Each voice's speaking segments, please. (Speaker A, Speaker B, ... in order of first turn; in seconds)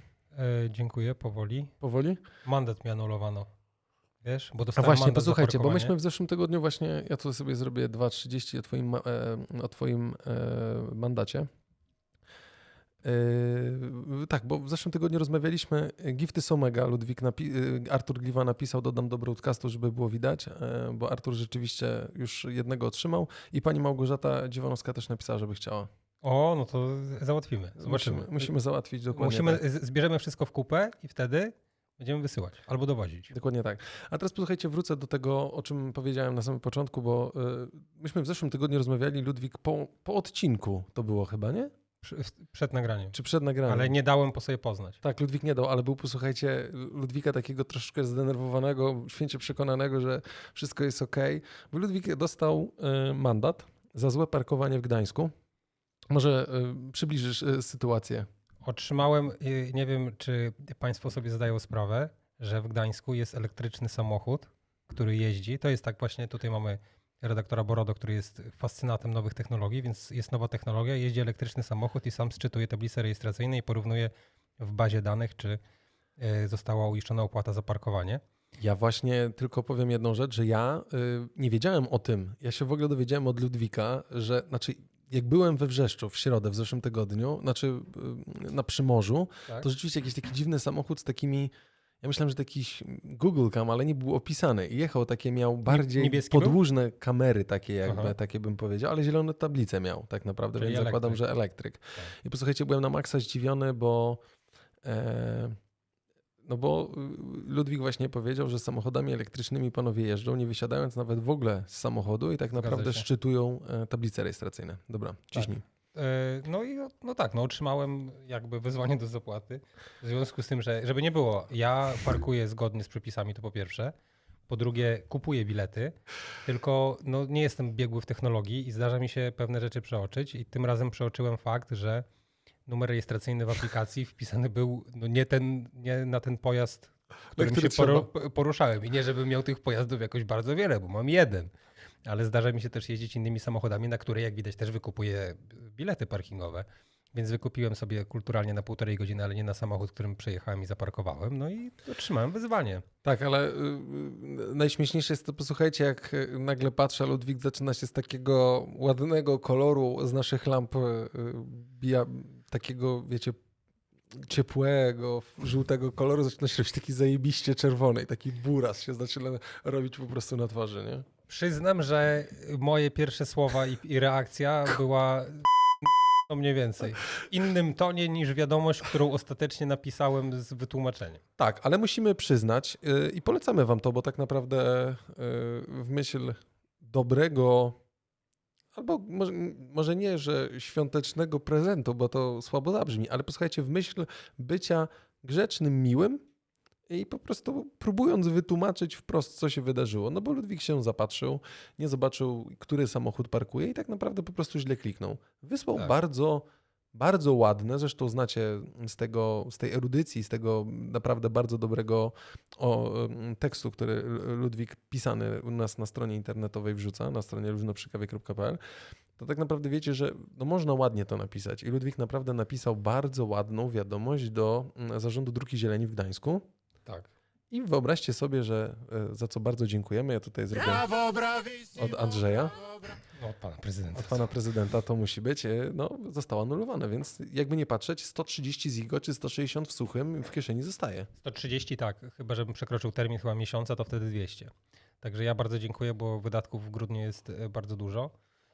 Speaker A: 0.3-1.7, 2.4-3.5, 4.2-5.9, 26.2-28.5, 29.1-33.3, 42.0-43.1, 43.7-45.0, 58.6-75.6, 76.2-78.2, 95.7-96.6, 97.9-98.1, 100.6-101.2, 112.5-113.1, 115.3-123.9, 124.5-132.1, 132.7-141.5, 142.1-152.8, 171.3-181.2, 233.2-234.3, 241.2-248.1
Speaker B: 1.8-2.2, 4.7-11.5, 13.0-25.9, 27.8-29.6, 33.3-41.7, 43.1-43.9, 45.0-55.3, 56.1-58.3, 78.6-104.2, 104.8-105.5, 106.4-115.6, 137.4-138.1, 153.0-163.4, 164.1-171.1, 181.4-187.8, 188.8-196.2, 196.9-218.6, 219.2-226.4, 227.5-232.7, 233.9-241.1